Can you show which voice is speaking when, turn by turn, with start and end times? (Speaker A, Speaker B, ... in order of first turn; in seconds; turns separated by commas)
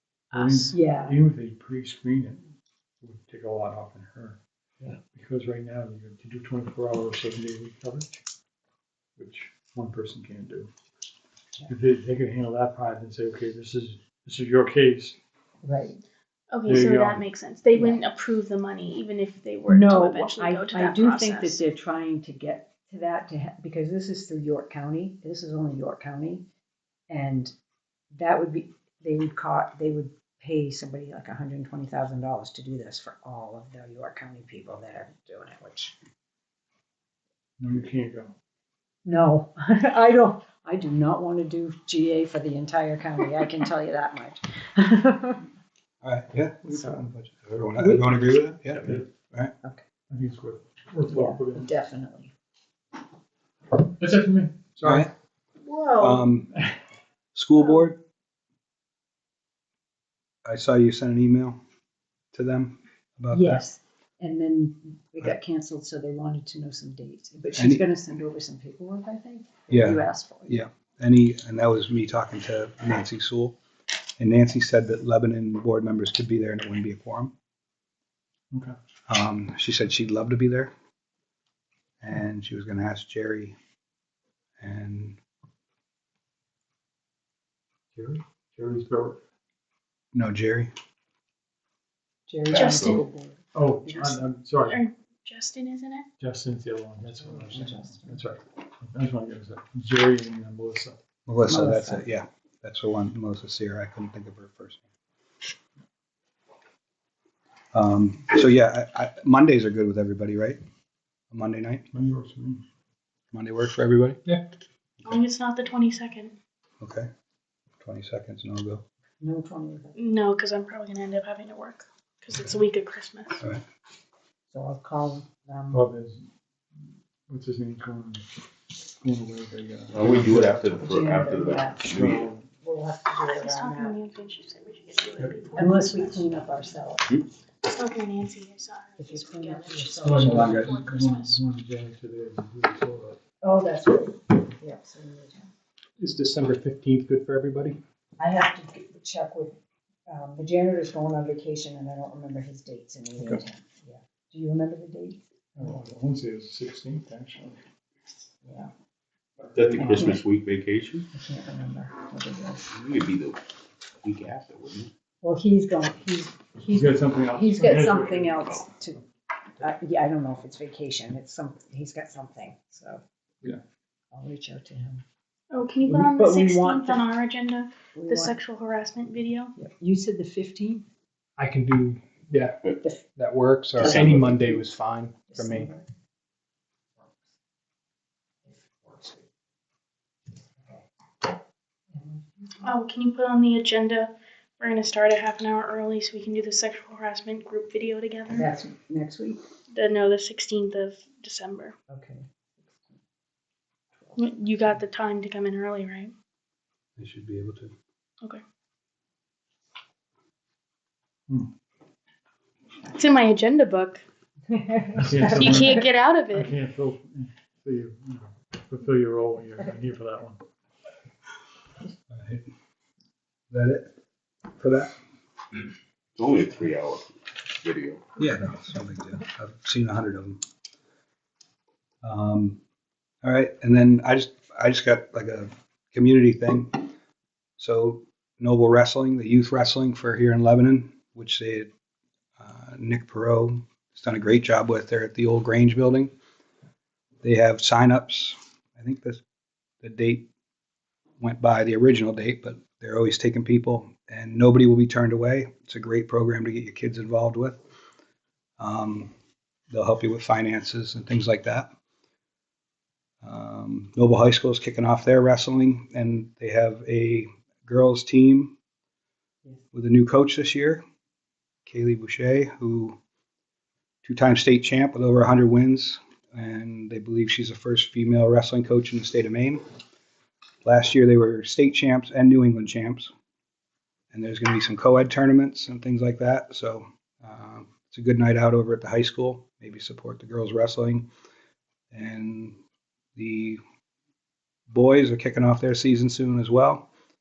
Speaker A: 0.3-4.4, Speaker B: 0.3-1.2, Speaker A: 5.1-8.2, Speaker A: 9.2-10.7, Speaker A: 11.7-15.2, Speaker B: 15.6-16.0, Speaker C: 16.5-21.6, Speaker A: 16.6-17.2, Speaker B: 17.7-18.0, Speaker B: 19.7-26.4, Speaker B: 27.1-27.5, Speaker B: 28.1-35.9, Speaker A: 37.6-38.3, Speaker B: 39.0-45.5, Speaker D: 46.0-49.5, Speaker B: 46.7-47.0, Speaker B: 47.8-48.6, Speaker A: 48.7-49.1, Speaker A: 50.1-51.7, Speaker B: 51.1-52.3, Speaker A: 54.0-55.1, Speaker D: 54.8-55.1, Speaker B: 55.6-56.2, Speaker D: 56.0-56.5, Speaker D: 57.3-58.0, Speaker D: 60.5-61.6, Speaker D: 62.3-63.6, Speaker B: 63.3-70.5, Speaker D: 67.5-67.8, Speaker D: 69.7-73.6, Speaker D: 74.2-77.3, Speaker D: 79.1-80.7, Speaker D: 82.0-83.5, Speaker D: 84.6-85.2, Speaker A: 87.9-89.2, Speaker D: 90.1-90.7, Speaker B: 92.3-94.2, Speaker C: 92.5-93.0, Speaker A: 93.5-94.8, Speaker C: 94.6-96.0, Speaker A: 96.2-101.0, Speaker B: 97.1-98.2, Speaker D: 101.3-104.8, Speaker B: 101.4-102.0, Speaker D: 107.7-110.6, Speaker D: 111.3-111.9, Speaker A: 111.9-112.6, Speaker D: 113.3-114.2, Speaker C: 115.0-116.3, Speaker D: 116.8-117.1, Speaker D: 117.8-118.8, Speaker B: 119.2-120.0, Speaker C: 120.0-123.4, Speaker B: 124.5-125.8, Speaker A: 125.7-126.3, Speaker A: 127.3-128.2, Speaker A: 129.0-130.7, Speaker E: 129.9-132.3, Speaker B: 130.8-132.0, Speaker A: 131.8-132.4, Speaker B: 132.5-134.0, Speaker C: 133.2-136.3, Speaker B: 135.5-137.2, Speaker C: 137.6-141.4, Speaker B: 139.0-140.7, Speaker A: 140.0-143.2, Speaker D: 140.4-140.7, Speaker B: 143.4-145.5, Speaker F: 146.0-147.8, Speaker B: 148.2-149.5, Speaker B: 150.1-155.7, Speaker A: 155.6-157.6, Speaker B: 158.4-158.7, Speaker A: 159.4-160.1, Speaker E: 159.5-161.1, Speaker B: 159.7-160.2, Speaker B: 161.1-162.7, Speaker E: 162.7-163.4, Speaker E: 164.0-164.9, Speaker B: 165.2-169.0, Speaker A: 166.7-168.4, Speaker B: 169.6-173.0, Speaker B: 174.1-175.0, Speaker C: 175.5-179.5, Speaker B: 175.8-177.1, Speaker B: 177.9-178.3, Speaker B: 179.6-180.8, Speaker B: 182.7-183.1, Speaker F: 183.7-185.7, Speaker B: 183.8-184.6, Speaker B: 185.3-185.8, Speaker B: 188.4-189.2, Speaker B: 191.9-192.7, Speaker C: 192.6-198.5, Speaker B: 198.3-199.4, Speaker C: 199.7-201.7, Speaker B: 201.9-203.0, Speaker C: 204.2-206.1, Speaker D: 207.0-207.7, Speaker C: 212.9-214.0, Speaker B: 214.5-215.8, Speaker A: 214.9-220.4, Speaker C: 215.2-216.5, Speaker D: 222.1-222.5, Speaker D: 223.5-223.9, Speaker D: 224.6-224.9, Speaker E: 226.2-228.1, Speaker D: 228.2-230.4, Speaker D: 232.0-232.6, Speaker D: 233.2-236.9, Speaker D: 237.6-241.7, Speaker D: 242.4-246.1, Speaker D: 247.2-249.2, Speaker D: 249.8-250.3, Speaker D: 251.2-257.6, Speaker D: 258.6-259.1, Speaker D: 259.7-261.7, Speaker D: 263.2-268.5, Speaker D: 269.7-270.8, Speaker D: 271.6-273.0, Speaker D: 274.0-279.6, Speaker D: 280.6-283.1, Speaker D: 284.1-291.1, Speaker D: 291.9-292.6, Speaker D: 293.1-293.6, Speaker D: 294.7-296.9